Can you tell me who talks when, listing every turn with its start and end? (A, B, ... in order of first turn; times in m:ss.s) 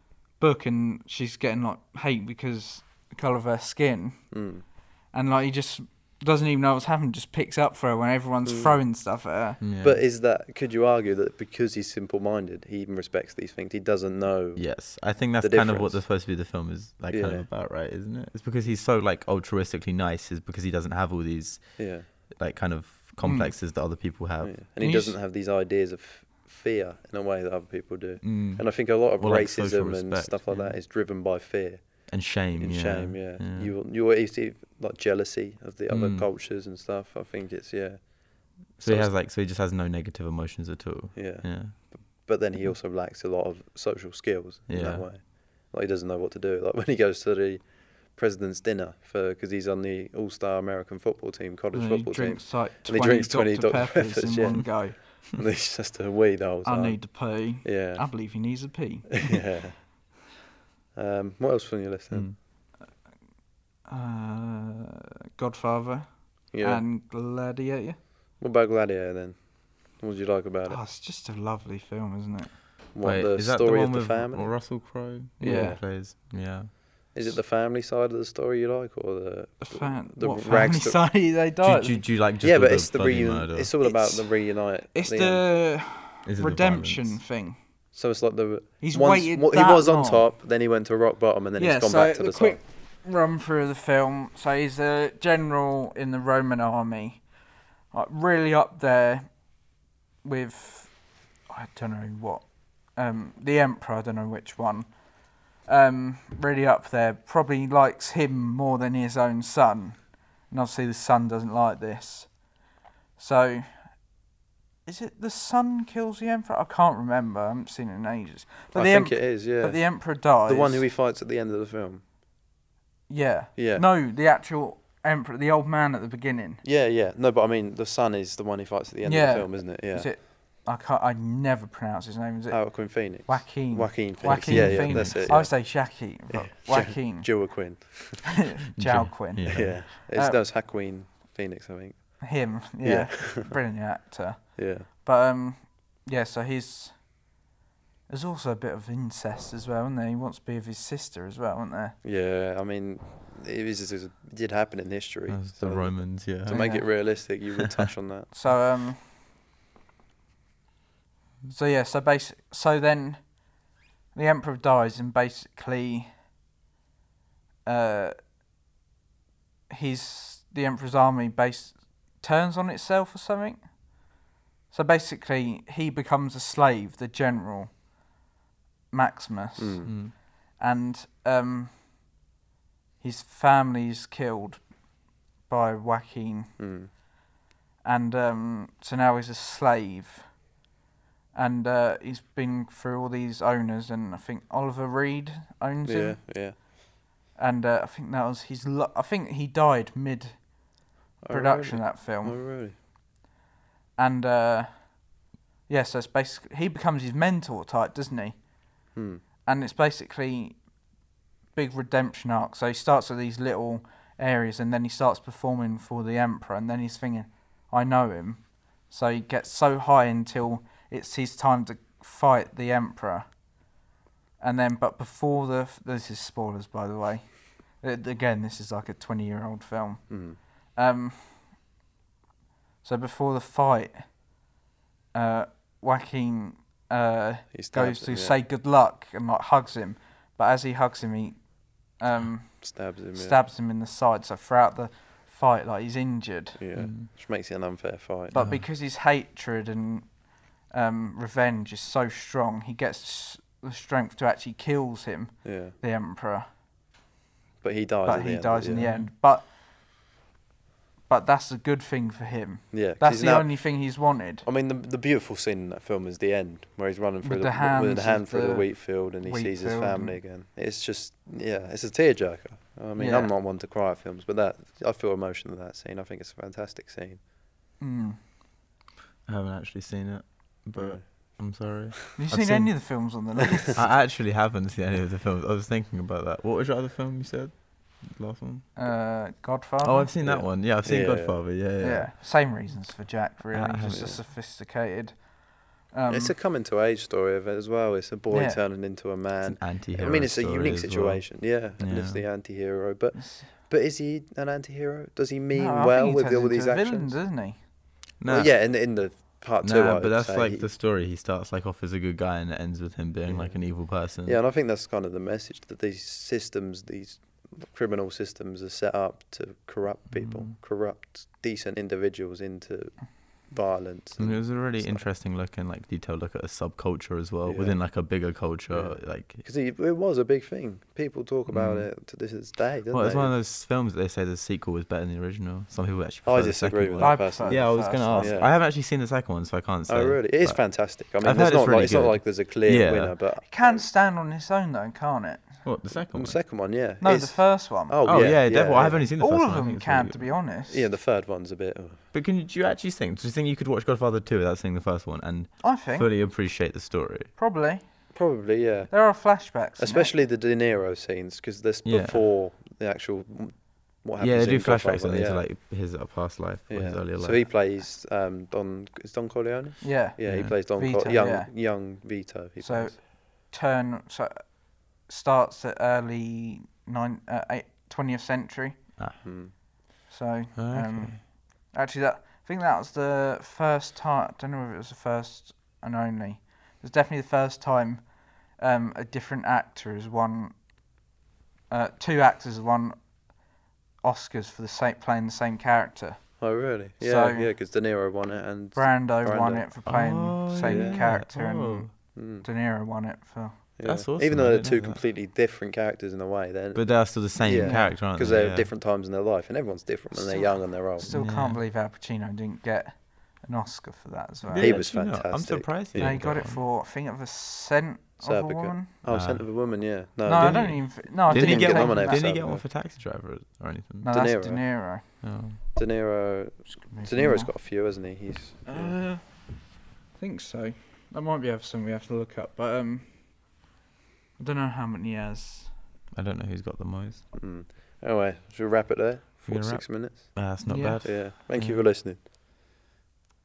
0:00.4-0:09.6 A
0:04.3-0:04.6 B
0:08.4-0:08.8 B
0:09.6-0:10.0 C
0:09.8-0:16.1 B
0:14.6-0:24.6 C
0:17.1-0:17.5 B
0:21.8-0:22.1 B
0:23.2-0:23.5 A
0:24.4-0:39.1 B
0:24.8-0:25.2 A
0:28.2-0:30.8 C
0:32.1-0:33.7 C
0:35.9-0:36.3 C
0:38.8-0:41.8 C
0:41.1-0:59.8 B
0:44.7-0:45.1 C
0:51.7-0:55.0 A
0:56.6-0:59.4 A
1:00.9-1:02.4 B
1:02.1-1:02.4 C
1:03.8-1:08.0 A
1:06.5-1:06.8 B
1:08.4-1:10.8 B
1:10.6-1:12.6 A
1:12.9-1:15.9 B
1:13.0-1:16.7 C
1:15.4-1:15.8 A
1:17.1-1:21.0 B
1:19.6-1:22.0 A
1:21.6-1:23.7 C
1:22.4-1:25.4 B
1:23.8-1:27.6 A
1:26.2-1:27.2 C
1:27.9-1:32.6 B
1:28.8-1:30.2 A
1:31.6-1:37.2 A
1:37.9-1:39.3 A
1:40.2-1:40.9 A
1:41.5-1:52.4 A
1:53.2-1:54.0 A
1:54.8-2:00.9 A
1:58.7-2:02.0 B
2:03.1-2:06.6 A
2:03.6-2:03.8 B
2:06.6-2:10.2 B
2:09.0-2:17.8 A
2:12.5-2:18.5 B
2:14.3-2:15.3 C
2:18.4-2:20.4 A
2:18.8-2:19.8 C
2:19.5-2:23.6 B
2:22.2-2:27.1 A
2:24.6-2:24.9 B
2:28.1-2:32.0 A
2:32.0-2:38.5 B
2:35.3-2:37.8 C
2:36.4-2:37.0 A
2:38.3-2:39.1 A
2:41.4-2:46.1 A
2:47.6-2:48.1 A
2:49.7-2:53.7 A
2:54.7-2:57.7 A
2:58.9-3:02.1 A
2:59.6-2:59.9 B
2:59.8-3:00.1 C
3:03.0-3:04.6 A
3:05.5-3:06.5 A
3:06.6-3:06.9 B
3:07.8-3:10.4 A
3:11.3-3:16.7 A
3:15.8-3:16.6 B
3:17.3-3:22.4 A
3:21.2-3:22.8 B
3:24.0-3:25.1 A
3:25.7-3:28.4 A
3:28.9-3:29.2 B
3:29.4-3:30.6 A
3:31.5-3:43.2 A
3:44.4-3:51.6 A
3:50.1-3:50.4 B
3:52.8-3:54.1 A
3:55.1-4:06.6 A
3:57.5-3:58.4 B
4:02.6-4:03.4 B
4:06.6-4:08.4 B
4:06.7-4:07.1 C
4:08.3-4:16.4 A
4:08.3-4:08.6 C
4:15.4-4:15.8 B
4:17.6-4:18.9 B
4:18.0-4:19.5 A
4:18.7-4:19.1 C
4:21.1-4:24.4 A
4:22.7-4:37.2 B
4:27.2-4:30.2 A
4:33.0-4:33.3 A
4:37.8-4:38.2 A
4:39.2-4:43.2 C
4:40.8-4:41.4 B
4:42.2-4:43.8 A
4:43.4-4:43.8 B
4:43.7-4:48.7 C
4:48.8-4:50.1 A
4:49.8-4:52.1 C
4:50.2-4:51.5 B
4:51.8-4:55.3 A
4:53.5-4:54.1 C
4:53.9-4:54.2 B
4:55.9-4:56.3 A
4:56.1-5:07.2 B
4:58.3-4:58.6 A
4:59.4-5:02.3 C
5:03.1-5:03.4 A
5:05.5-5:07.6 A
5:08.2-5:08.6 C
5:08.3-5:10.7 B
5:09.6-5:14.4 C
5:13.3-5:25.0 B
5:20.1-5:20.5 C
5:24.2-5:29.4 C
5:27.4-5:28.0 B
5:28.7-5:33.4 B
5:31.5-5:31.9 C
5:32.9-5:43.2 C
5:36.2-5:38.5 B
5:37.0-5:38.5 A
5:39.9-5:43.8 B
5:43.4-5:45.6 A
5:45.6-5:46.4 C
5:46.1-5:49.1 B
5:47.0-5:48.3 A
5:48.0-5:50.2 C
5:49.2-5:50.8 A
5:50.7-5:52.0 B
5:52.1-5:57.3 C
5:55.6-5:56.1 A
5:57.4-5:57.8 A
5:58.1-6:05.5 B
5:58.9-6:00.1 A
6:01.8-6:02.2 C
6:04.2-6:07.4 C
6:06.7-6:13.0 B
6:09.8-6:11.5 A
6:10.2-6:10.5 C
6:12.6-6:18.9 A
6:19.2-6:19.5 B
6:20.1-6:30.5 A
6:20.5-6:21.2 C
6:31.7-6:33.0 A
6:34.0-6:37.5 A
6:36.4-6:39.8 B
6:38.8-6:43.7 A
6:39.8-6:41.9 C
6:40.6-6:41.2 B
6:42.1-6:42.5 B
6:43.8-6:51.1 B
6:43.8-6:45.0 C
6:46.7-6:48.7 C
6:47.6-6:48.0 A
6:50.1-6:54.9 A
6:51.0-6:51.6 C
6:54.5-6:56.6 C
6:54.5-6:56.2 B
6:56.0-6:58.9 A
6:58.2-7:02.6 B
6:59.1-7:04.1 C
7:00.2-7:02.2 A
7:04.0-7:05.4 A
7:04.1-7:05.2 B
7:05.2-7:05.6 C
7:05.7-7:09.0 B
7:06.8-7:07.5 A
7:08.6-7:09.5 A
7:10.2-7:13.2 A
7:14.4-7:15.7 A
7:16.2-7:17.2 C
7:17.3-7:22.2 B
7:19.5-7:21.8 C
7:20.6-7:21.3 A